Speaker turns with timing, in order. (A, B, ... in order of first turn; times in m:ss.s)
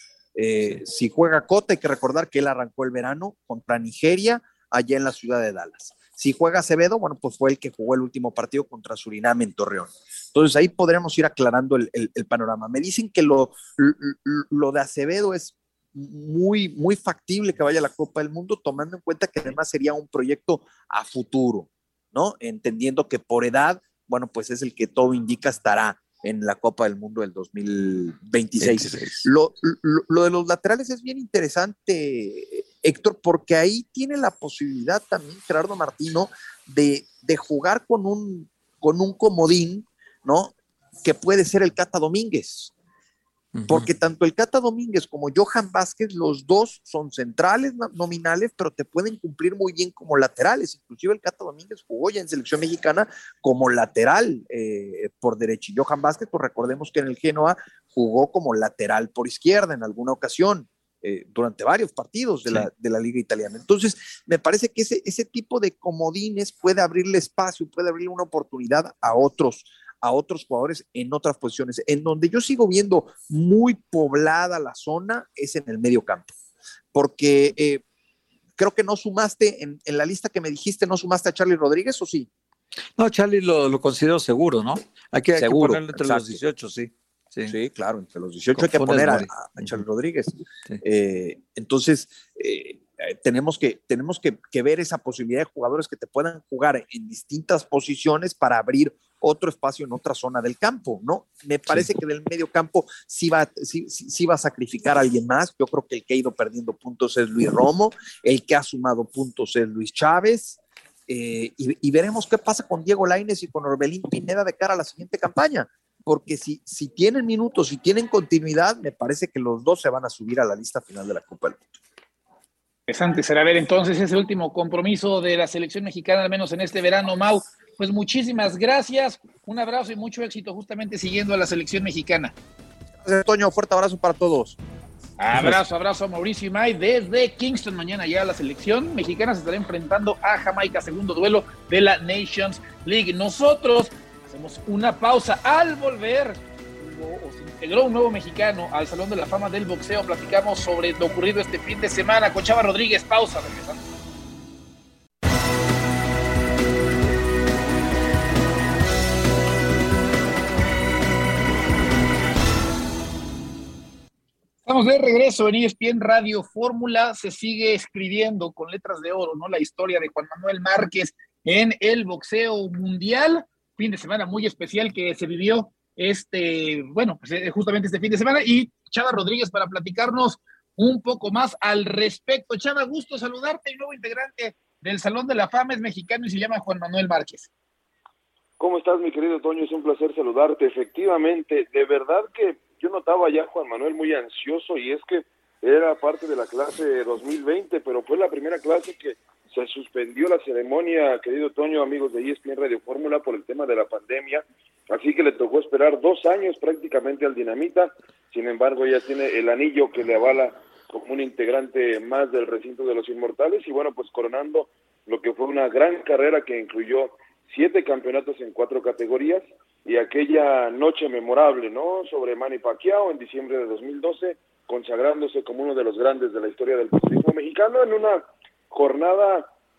0:00.4-0:42.7 A
0:28.6-0:29.2 B
0:43.5-0:43.9 B
0:43.7-1:16.3 A
1:16.9-1:17.8 A
1:18.6-1:22.3 A
1:23.0-1:27.5 B
1:25.4-1:26.4 A
1:27.5-2:01.7 A
1:28.5-1:29.8 B
2:02.9-2:12.3 C
2:13.0-2:14.6 A
2:15.2-2:33.8 C
2:44.6-3:07.5 C
3:08.6-3:49.5 D